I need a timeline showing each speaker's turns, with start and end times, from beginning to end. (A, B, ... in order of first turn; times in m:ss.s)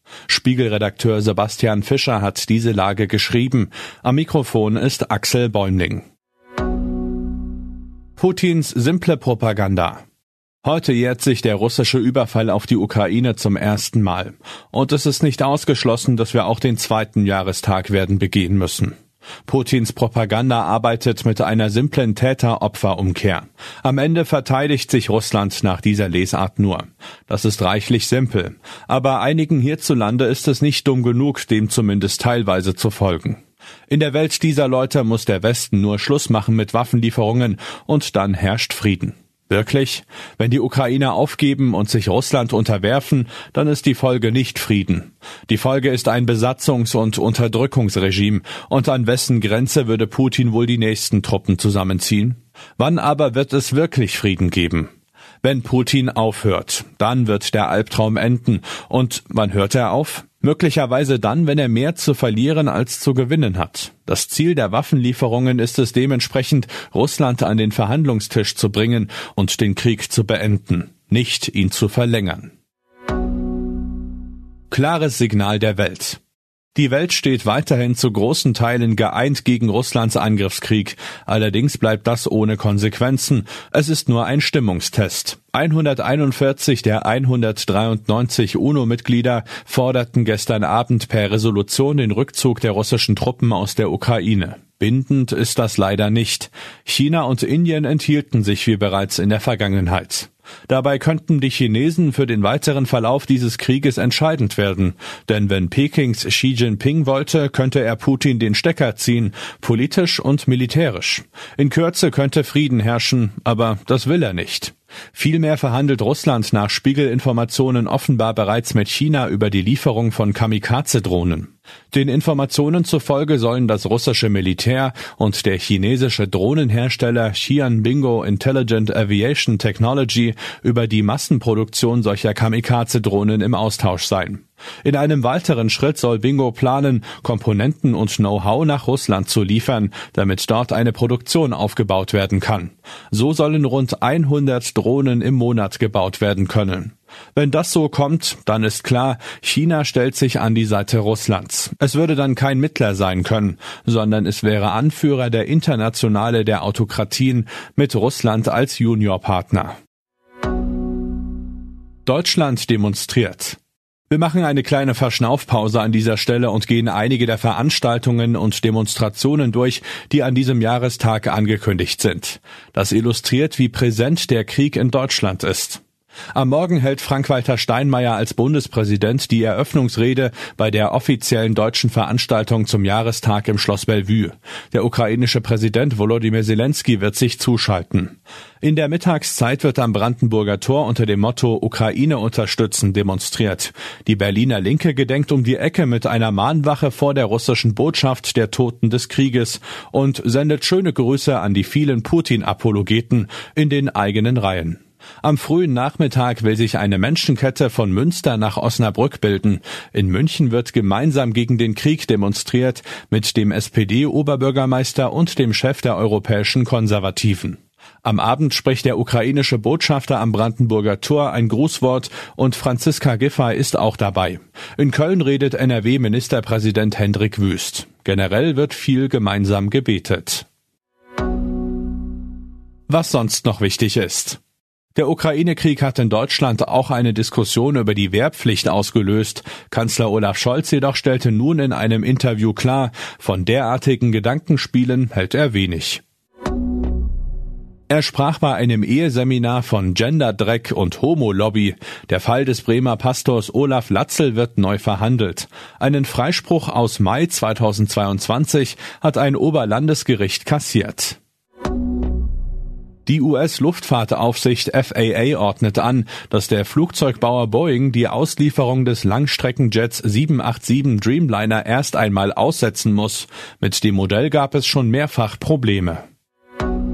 0:00.3-0:06.1 A
0:08.2-0:10.0 A
0:10.6-0:54.9 A
0:55.4-1:12.5 A
1:14.7-1:16.2 A
1:16.7-2:39.8 A
2:42.0-2:43.6 A
2:44.1-2:55.8 A
2:56.3-3:50.5 A
3:52.9-3:54.4 A
3:54.9-4:06.0 A
4:07.9-4:21.2 A
4:23.0-4:36.0 A